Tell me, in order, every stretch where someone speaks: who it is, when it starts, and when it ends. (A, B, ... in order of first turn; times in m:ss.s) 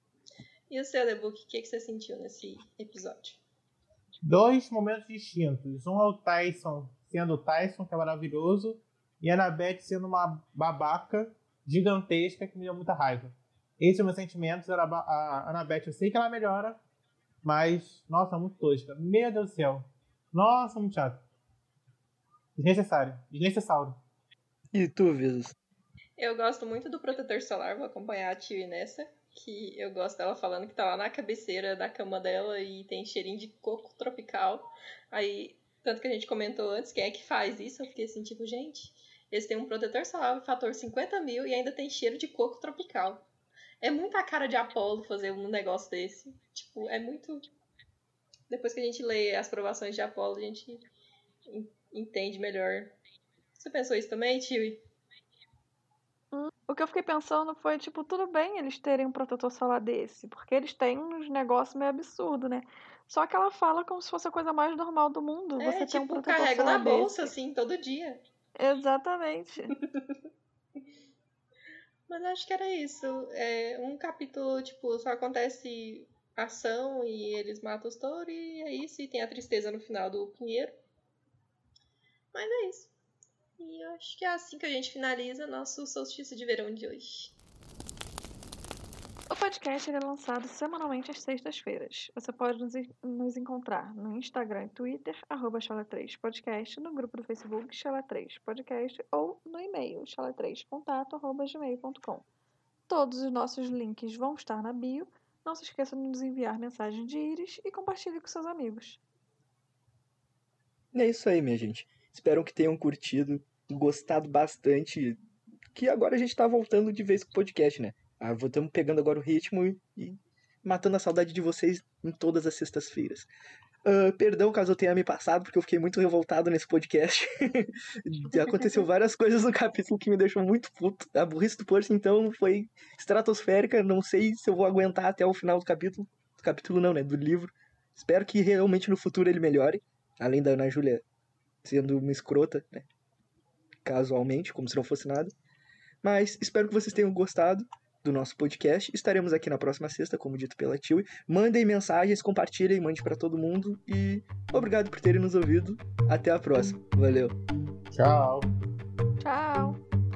0:00.7-0:03.4 A
0:04.2-0:16.8 B
0:17.4-0:21.3 B
0:22.6-0:24.0 B
0:24.7-0:25.6 C
0:26.2-0:43.3 A
0:43.8-0:47.5 A
0:48.5-0:50.9 A
0:51.5-0:53.0 A
0:53.6-0:54.8 A
0:56.3-1:07.3 D
1:05.6-1:08.2 A
1:08.6-1:09.7 D
1:09.7-1:10.2 A
1:12.1-1:20.8 A
1:22.3-1:22.9 A
1:23.6-1:27.4 A
1:29.3-1:42.2 D
1:42.9-1:49.0 D
1:50.9-1:55.2 C
1:55.7-2:03.3 C
2:03.8-2:21.0 C
2:21.6-2:22.9 C
2:23.8-2:25.3 C
2:26.0-2:37.4 C
2:37.9-2:38.5 B
2:39.2-2:39.8 D